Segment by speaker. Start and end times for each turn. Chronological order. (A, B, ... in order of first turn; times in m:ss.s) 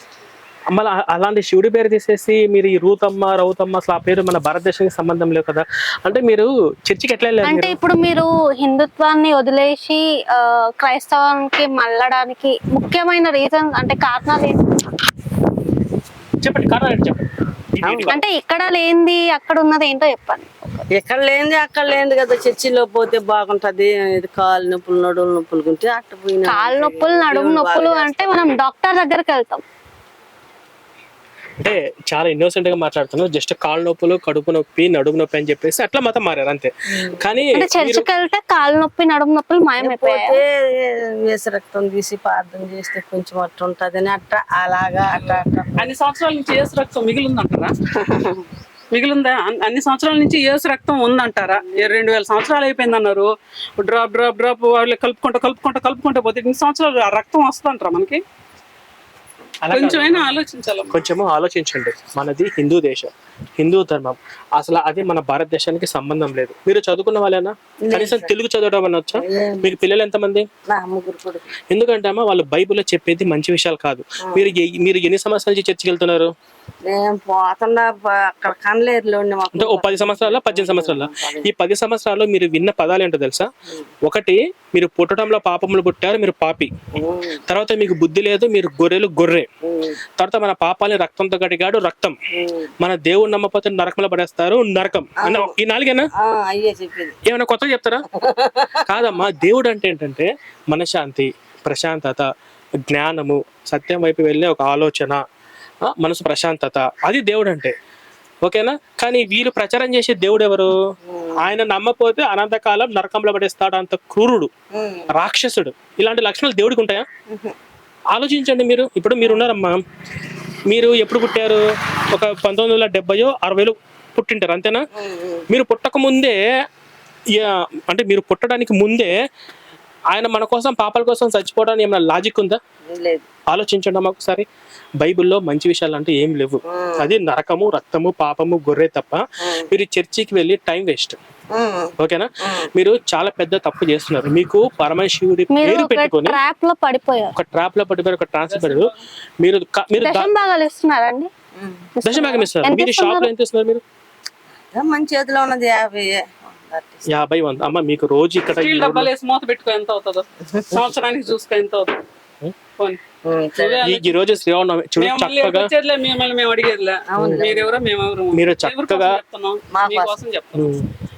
0:00.7-0:07.8 A
0:07.4-0:14.6 B
0:16.4-0:18.2 A
0:17.8-0:18.2 C
0:18.1-0:20.8 B
0:21.0-0:28.5 C
0:26.4-0:29.6 B
0:31.6-0:38.1 A
0:37.0-0:37.3 C
0:37.6-0:40.4 B
0:39.8-0:46.0 C
0:45.8-0:47.7 D
0:48.0-0:48.4 C
0:48.9-0:58.2 D
0:59.6-1:00.4 A
0:59.7-1:01.1 D
1:00.9-1:10.5 A
1:07.8-1:08.3 C
1:09.2-1:09.7 C
1:10.7-1:11.5 C
1:11.7-1:16.3 A
1:16.8-1:21.5 C
1:19.5-1:23.5 A
1:24.0-1:26.7 A
1:27.0-1:27.4 C
1:27.5-1:29.5 A
1:29.6-1:30.0 C
1:30.2-1:32.2 A
1:32.4-1:32.7 C
1:32.8-1:36.1 A
1:35.2-1:35.6 C
1:36.2-1:37.2 C
1:37.2-1:38.0 A
1:38.1-1:38.8 C
1:38.9-1:42.3 A
1:42.9-1:45.2 A
1:45.9-1:47.7 A
1:48.4-1:50.7 A
1:51.1-1:51.5 C
1:51.4-1:54.5 A
1:54.7-1:55.1 C
1:55.1-1:57.1 A
1:58.1-1:59.8 A
1:59.2-1:59.5 C
2:00.7-2:04.8 A
2:05.0-2:05.4 C
2:05.5-2:06.4 A
2:07.3-2:09.1 A
2:10.1-2:12.6 A
2:12.9-2:13.3 C
2:13.5-2:14.5 A
2:15.0-2:21.2 A
2:16.7-2:17.1 C
2:21.5-2:22.0 C
2:22.0-2:26.4 A
2:25.5-2:27.3 B
2:27.4-2:30.3 A
2:28.5-2:29.0 D
2:30.0-2:31.3 B
2:31.6-2:31.9 C
2:32.0-2:33.3 B
2:32.0-2:33.8 A
2:34.7-2:37.1 C
2:37.1-2:39.1 A
2:38.6-2:42.0 D
2:43.2-2:43.9 C
2:43.6-2:44.1 D
2:43.8-2:45.7 A
2:45.0-2:50.7 D
2:47.1-2:47.8 C
2:47.2-2:47.4 A
2:48.3-2:49.2 A
2:49.7-2:50.2 C
2:50.5-2:50.9 A